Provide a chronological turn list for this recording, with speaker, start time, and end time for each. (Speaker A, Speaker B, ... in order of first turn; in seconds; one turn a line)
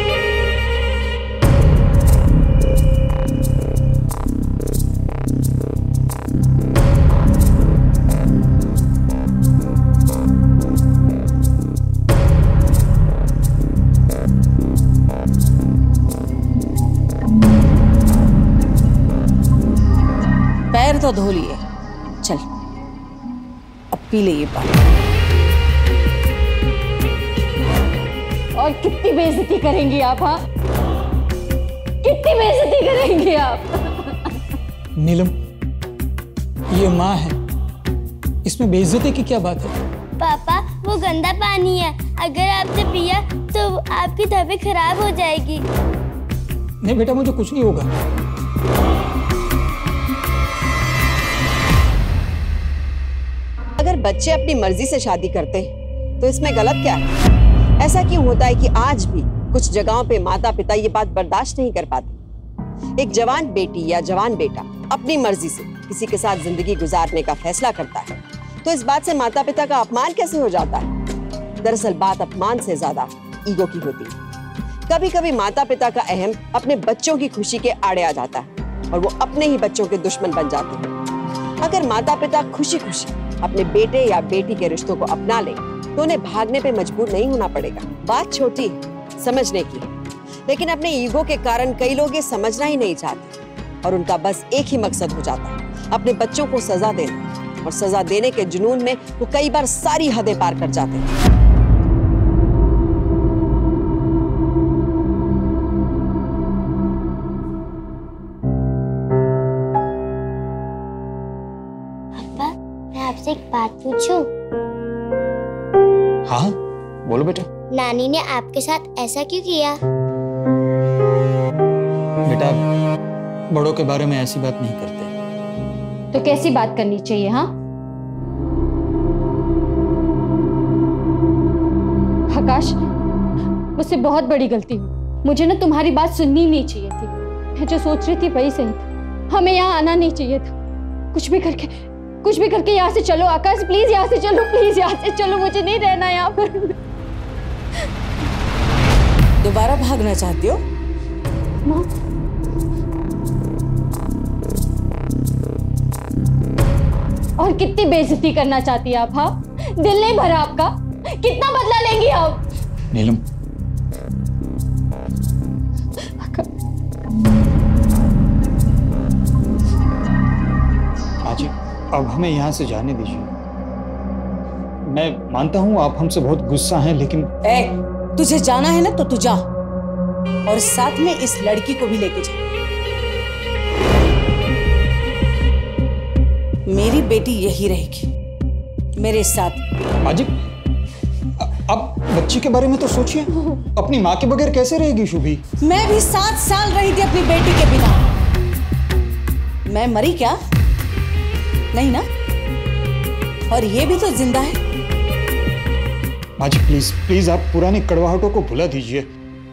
Speaker A: 20.7-21.6
Speaker A: 23.9-24.7
Speaker B: 28.6-30.4
Speaker B: 32.0-34.4
Speaker C: 35.0-35.3
Speaker C: 36.7-37.4
Speaker C: 38.4-39.7
Speaker D: 40.2-45.6
Speaker C: 46.8-47.9
Speaker E: 53.8-55.7
Speaker E: 56.2-57.0
Speaker E: 57.8-62.2
Speaker E: 63.0-68.1
Speaker E: 68.7-70.9
Speaker E: 71.6-74.1
Speaker E: 74.9-80.9
Speaker E: 81.6-89.9
Speaker E: 90.5-101.1
Speaker D: 112.2-114.3
Speaker C: 116.3-117.5
Speaker D: 117.7-119.8
Speaker C: 122.2-122.6
Speaker C: 123.5-125.1
Speaker B: 126.1-127.5
Speaker B: 132.3-132.8
Speaker B: 133.8-140.6
Speaker B: 141.1-146.8
Speaker A: 149.4-150.6
Speaker B: 157.4-162.4
Speaker C: 162.9-163.2
Speaker B: 166.0-166.5
Speaker C: 171.2-173.3
Speaker C: 174.9-177.3
Speaker A: 177.4-179.4
Speaker A: 180.5-182.4
Speaker A: 186.7-188.1
Speaker A: 188.9-189.6
Speaker C: 190.0-190.3
Speaker C: 191.4-195.4
Speaker A: 195.6-198.1
Speaker A: 199.7-200.4
Speaker A: 201.7-202.1
Speaker A: 203.5-204.6
Speaker C: 206.4-209.1